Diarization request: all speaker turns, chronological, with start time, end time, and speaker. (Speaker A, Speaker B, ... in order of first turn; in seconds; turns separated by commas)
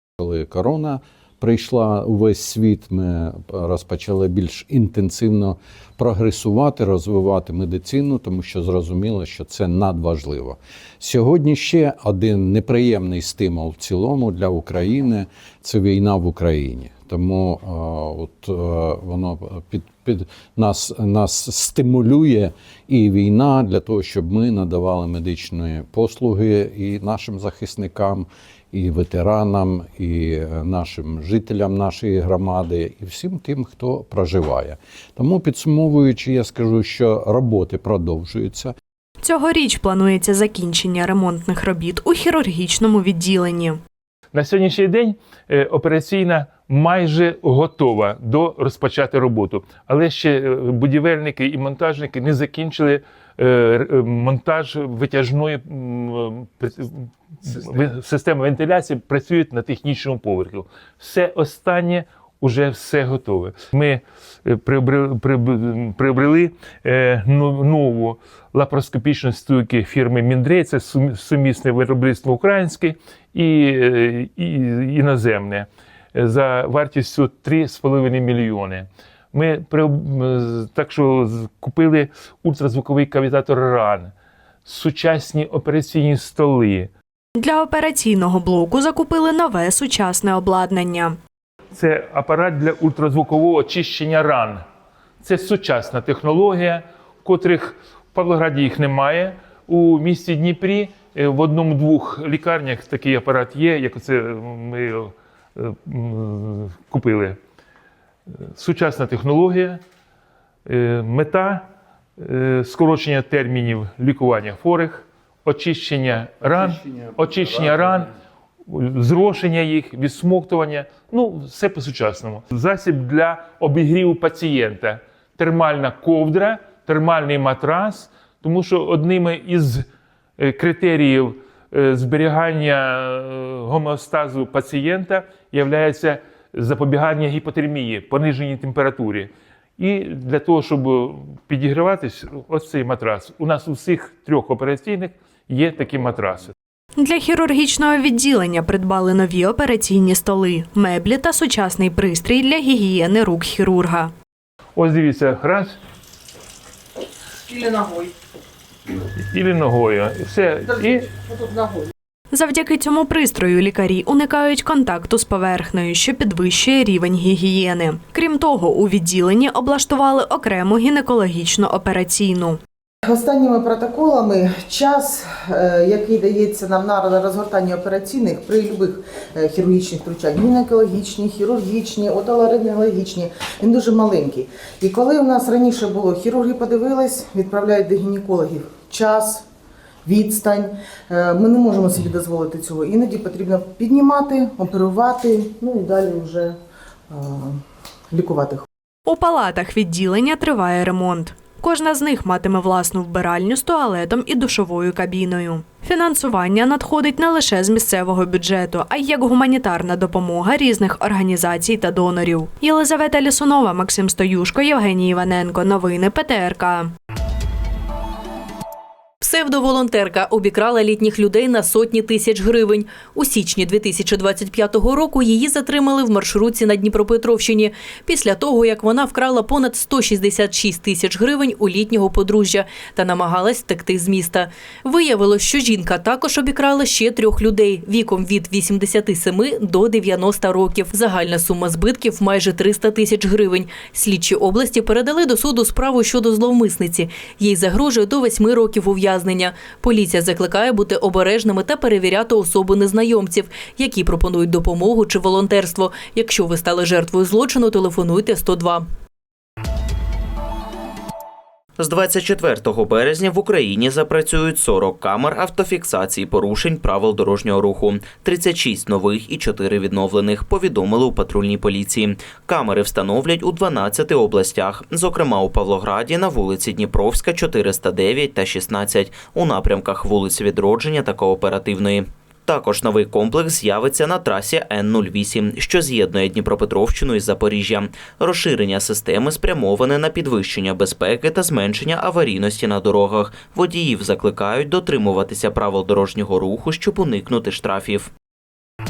Speaker A: 0.2-38.7, Speaker B: 39.2-43.8, Speaker C: 44.3-84.1, Speaker C: 84.7-86.9, Speaker B: 87.4-91.2, Speaker C: 91.8-94.6, Speaker C: 95.2-107.4, Speaker C: 108.6-109.8, Speaker C: 110.7-111.7, Speaker C: 112.2-118.1, Speaker C: 118.7-129.9, Speaker C: 130.4-146.5, Speaker B: 147.0-154.1, Speaker C: 154.8-155.8, Speaker C: 159.3-161.1, Speaker D: 160.7-161.9, Speaker B: 162.3-172.6, Speaker D: 173.1-189.5, Speaker D: 190.1-196.6, Speaker D: 197.1-197.6, Speaker D: 198.1-198.7, Speaker B: 199.1-216.9, Speaker E: 219.2-258.9, Speaker F: 261.8-298.1